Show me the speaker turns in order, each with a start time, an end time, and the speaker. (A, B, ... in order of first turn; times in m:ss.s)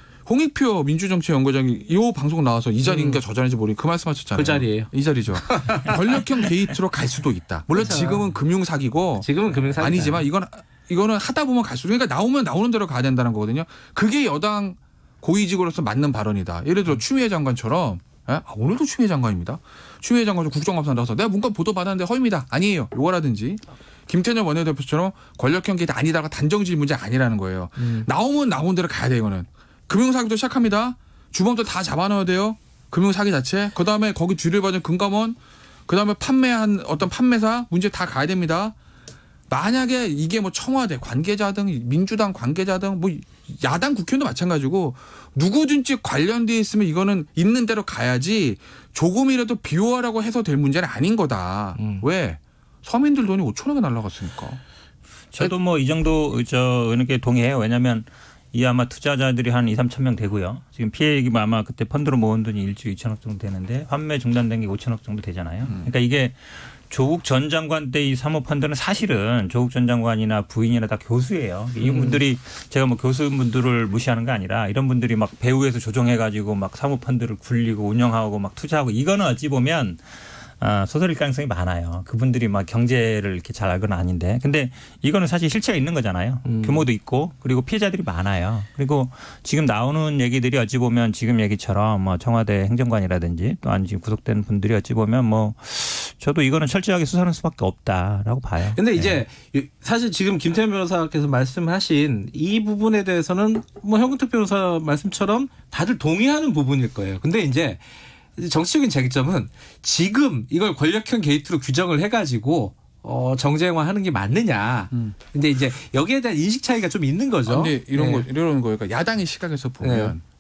0:00.3-0:38.8 A
0:02.8-0:03.2 B
0:04.4-0:06.0 B
0:07.7-0:08.3 B
0:09.2-0:10.3 B
0:27.8-0:28.1 B
0:39.5-0:54.6 A
0:51.8-0:52.0 B
0:55.3-1:20.0 C
1:05.6-1:05.9 A
1:11.8-1:12.2 B
1:20.6-1:39.2 C
1:26.4-1:26.9 B
1:38.7-1:58.3 B
1:54.9-1:55.2 A
1:57.5-2:00.2 A
1:59.8-2:00.2 B